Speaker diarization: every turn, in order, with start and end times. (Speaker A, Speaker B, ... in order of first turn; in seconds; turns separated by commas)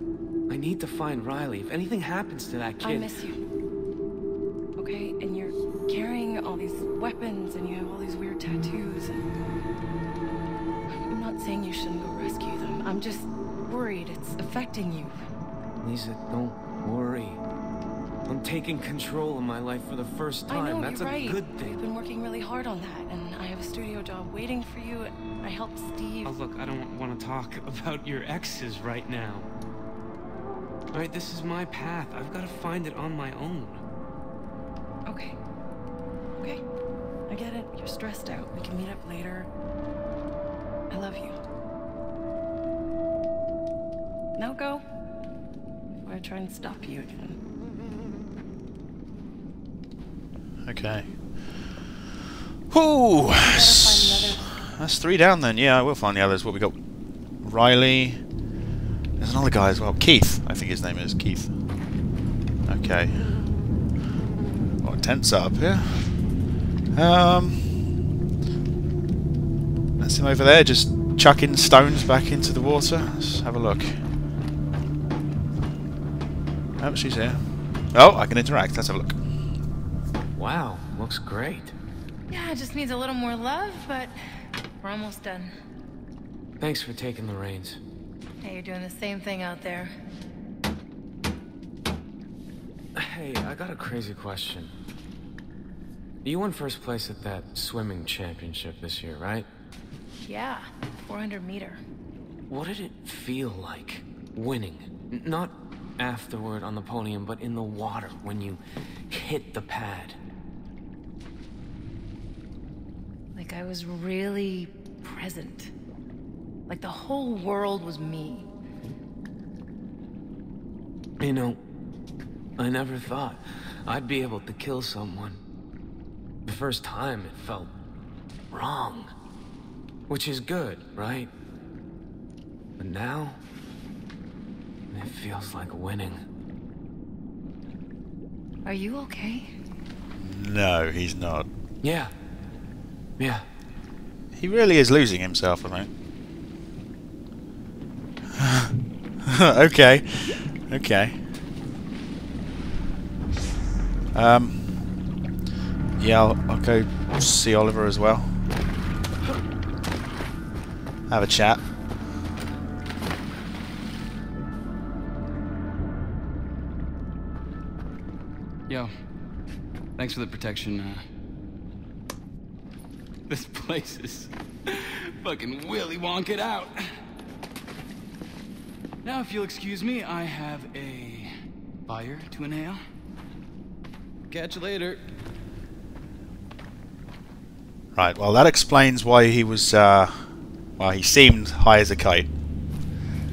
Speaker A: 0.5-3.1, Speaker B: 2.8-3.4, Speaker B: 4.8-9.2, Speaker B: 11.1-15.2, Speaker A: 15.8-17.4, Speaker A: 18.3-21.8, Speaker B: 20.5-26.3, Speaker A: 26.2-29.5, Speaker A: 30.9-33.8, Speaker B: 35.0-35.4, Speaker B: 36.4-36.6, Speaker B: 37.3-39.5, Speaker B: 40.9-41.4, Speaker B: 44.4-44.8, Speaker B: 46.0-47.4, Speaker C: 50.6-51.6, Speaker C: 52.7-56.8, Speaker B: 53.4-54.5, Speaker C: 57.4-58.2, Speaker C: 59.2-61.5, Speaker C: 62.6-63.4, Speaker C: 64.8-66.2, Speaker C: 66.9-67.9, Speaker C: 70.0-74.0, Speaker C: 76.8-77.4, Speaker C: 77.9-79.2, Speaker A: 80.3-81.7, Speaker B: 82.3-84.1, Speaker B: 84.8-85.5, Speaker A: 86.6-87.8, Speaker B: 88.4-89.9, Speaker A: 92.9-94.7, Speaker A: 96.2-99.5, Speaker B: 100.2-101.8, Speaker A: 102.5-108.6, Speaker A: 109.1-110.2, Speaker B: 113.3-115.7, Speaker B: 116.7-118.5, Speaker A: 121.2-121.6, Speaker A: 122.6-125.4, Speaker A: 126.5-127.7, Speaker A: 128.5-129.1, Speaker A: 130.1-131.3, Speaker A: 132.8-133.4, Speaker A: 134.9-136.2, Speaker B: 138.6-139.5, Speaker C: 140.2-141.5, Speaker A: 141.8-142.1, Speaker A: 143.2-143.4, Speaker C: 144.3-145.9, Speaker C: 148.3-151.2, Speaker C: 154.1-154.9, Speaker C: 156.0-158.3, Speaker C: 161.1-161.7, Speaker D: 168.7-168.9, Speaker D: 170.0-171.0, Speaker D: 173.3-176.9, Speaker D: 179.0-181.3, Speaker D: 181.9-182.8, Speaker D: 184.3-185.0, Speaker C: 187.9-192.3